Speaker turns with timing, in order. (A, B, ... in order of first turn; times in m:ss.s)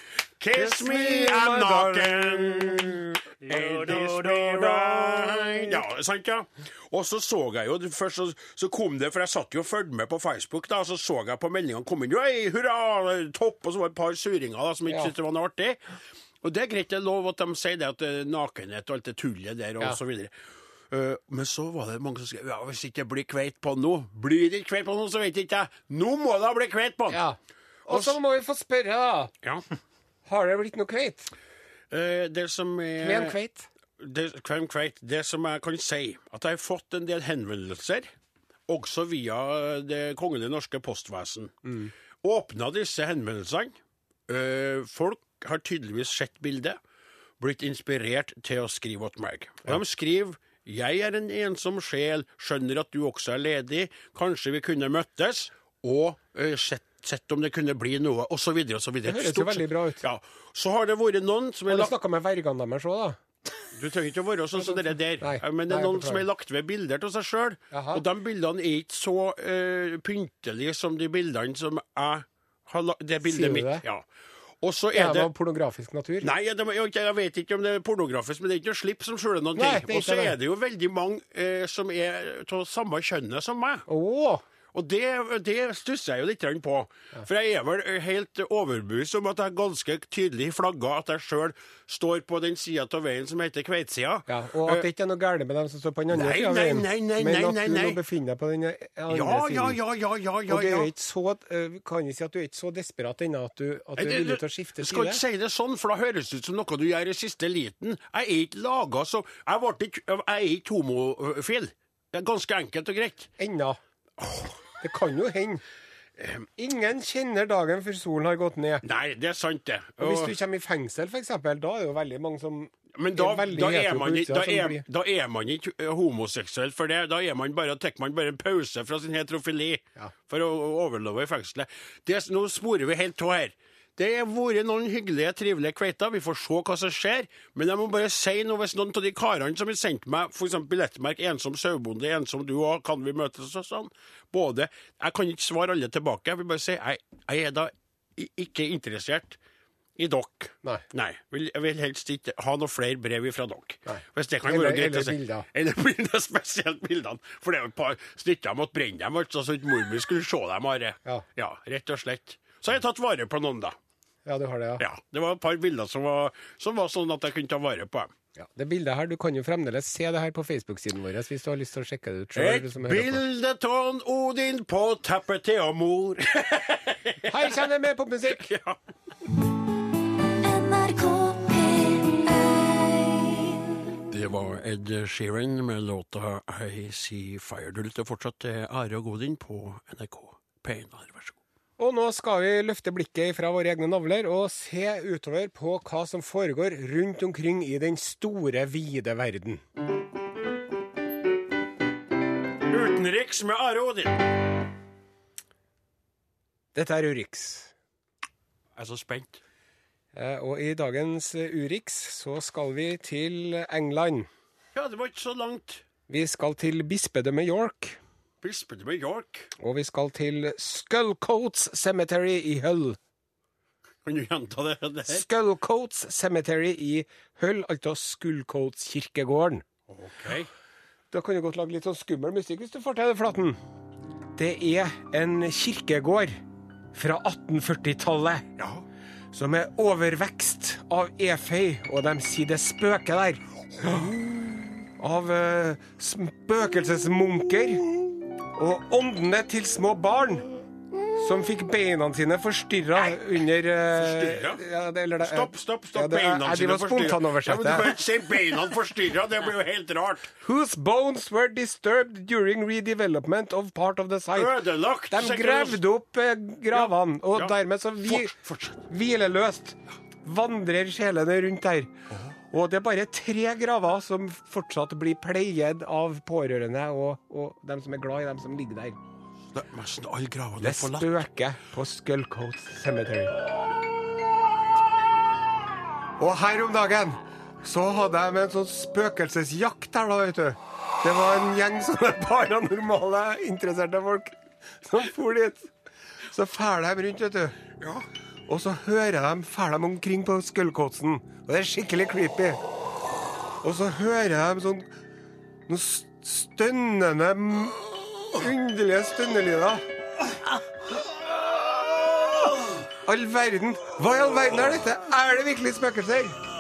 0:00.4-0:15.8 A
0:00.5-0:05.8 B
0:16.4-0:20.3 A
0:20.9-0:27.2 A
0:27.1-0:29.3 B
0:27.9-0:28.1 A
0:30.2-0:31.3 B
0:31.9-0:33.4 A
0:33.0-0:33.7 B
0:34.0-0:38.1 A
0:38.7-0:43.8 A
0:44.3-0:46.8 A
0:47.4-1:01.9 A
0:59.0-1:00.0 B
1:01.7-1:03.2 B
1:03.7-1:14.0 A
1:05.2-1:06.2 B
1:07.7-1:08.0 B
1:13.2-1:13.8 B
1:14.6-1:15.3 A
1:14.9-1:16.3 B
1:16.2-1:23.8 A
1:19.6-1:20.4 B
1:23.9-1:24.4 B
1:24.7-1:34.8 A
1:34.3-1:39.8 B
1:36.1-1:38.0 A
1:39.1-1:40.9 A
1:40.5-1:45.2 B
1:44.0-1:53.3 A
1:53.4-1:53.8 B
1:54.2-1:54.5 A
1:54.8-1:55.6 B
1:56.2-1:56.4 A
1:56.6-1:58.8 B
1:58.8-2:00.3 A
2:00.0-2:04.8 B
2:02.9-2:29.4 A
2:30.0-2:43.8 A
2:33.9-2:35.5 B
2:44.2-2:44.8 B
2:44.8-2:48.1 A
2:48.4-2:53.2 B
2:52.3-2:57.6 A
2:57.3-2:58.5 B
2:58.3-2:58.8 A
3:00.3-3:03.5 C
3:04.1-3:11.4 A
3:11.8-3:19.6 B
3:22.7-3:24.2 A
3:26.7-3:27.7 B
3:28.8-3:29.4 A
3:30.1-3:34.3 B
3:34.8-3:35.8 A
3:36.1-3:38.0 B
3:38.4-3:39.5 A
3:39.6-3:43.0 B
3:44.0-3:45.2 A
3:45.0-3:49.6 B
3:49.9-3:50.5 A
3:51.1-3:53.6 B
3:54.4-3:56.4 B
3:56.9-3:58.5 B
3:58.6-3:58.8 A
3:59.3-4:04.1 B
4:03.8-4:04.4 A
4:04.8-4:07.9 B
4:08.5-4:10.5 B
4:11.2-4:18.0 B
4:13.9-4:14.6 A
4:15.2-4:20.3 A
4:20.4-4:31.9 B
4:24.3-4:25.8 A
4:26.7-4:28.8 A
4:32.5-4:39.0 B
4:39.5-4:41.2 A
4:40.6-4:43.4 B
4:46.2-4:55.7 B
4:56.3-4:57.6 B
4:57.8-4:58.0 A
4:58.5-5:02.6 B
5:03.6-5:04.9 B
5:05.7-5:09.8 B
5:13.0-5:16.4 B